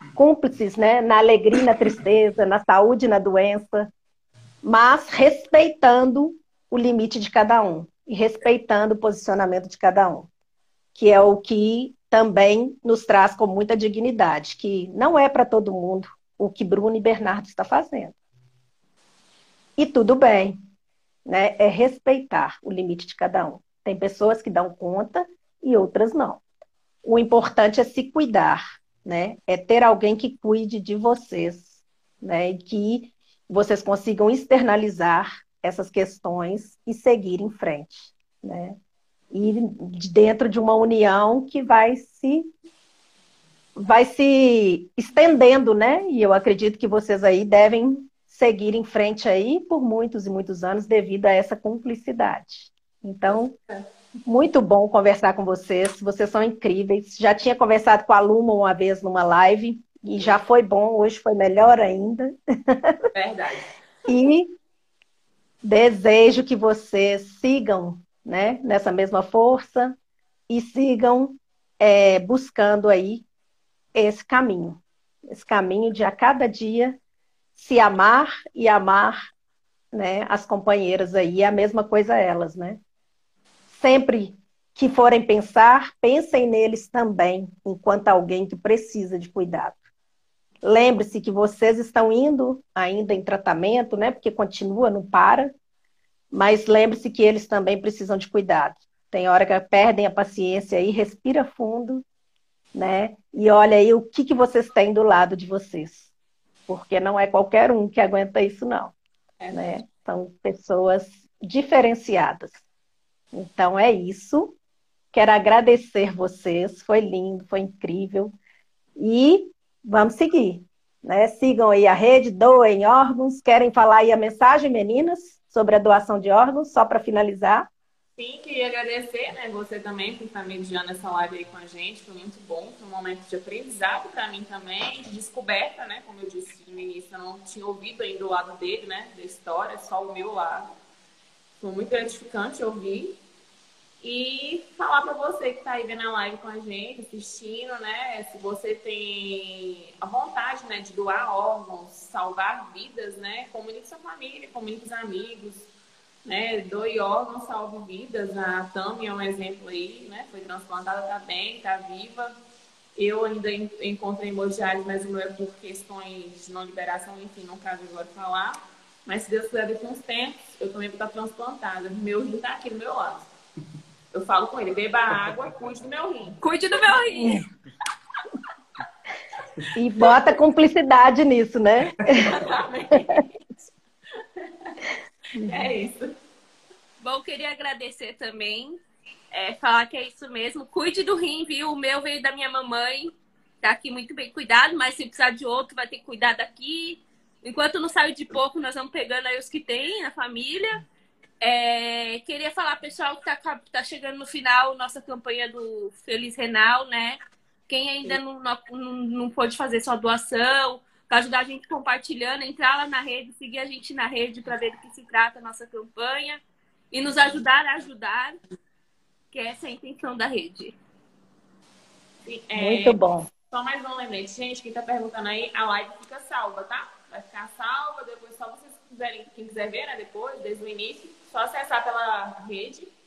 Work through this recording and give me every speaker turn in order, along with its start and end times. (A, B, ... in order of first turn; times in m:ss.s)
0:00.2-0:03.9 A
0:04.6-0:10.3 A
0:11.0-0:18.2 A
0:19.8-0:20.6 A
0:21.3-0:26.4 A
0:27.0-0:31.7 A
0:32.2-0:38.8 A
0:39.3-0:42.5 A
0:43.8-0:53.5 A
0:53.3-0:53.8 B
0:54.3-1:03.0 A
1:03.1-1:03.7 B
1:04.1-1:04.5 A
1:05.6-1:10.0 A
1:10.5-1:13.2 A
1:14.0-1:17.0 A
1:17.6-1:19.2 A
1:19.9-1:22.8 A
1:23.7-1:29.8 A
1:30.6-1:35.5 A
1:36.3-1:42.0 A
1:42.8-1:46.1 A
1:46.7-1:48.9 A
1:49.4-1:49.7 B
1:49.5-1:52.6 A
1:53.3-1:54.6 A
1:55.1-1:58.3 A
1:59.0-2:07.7 A
2:08.2-2:20.7 B
2:21.6-2:23.2 B
2:24.0-2:35.7 B
2:36.2-2:42.3 B
2:43.0-2:53.3 B
2:54.1-2:56.4 B
2:56.4-2:57.4 C
2:57.2-2:57.4 A
2:59.8-3:02.4 A
3:02.3-3:03.3 B
3:05.4-3:05.6 A
3:05.4-3:06.1 B
3:07.0-3:08.8 C
3:09.3-3:20.8 C
3:21.4-3:38.4 C
3:39.3-3:40.8 C
3:42.3-3:43.0 B
3:42.6-3:43.3 A
3:43.5-3:52.9 B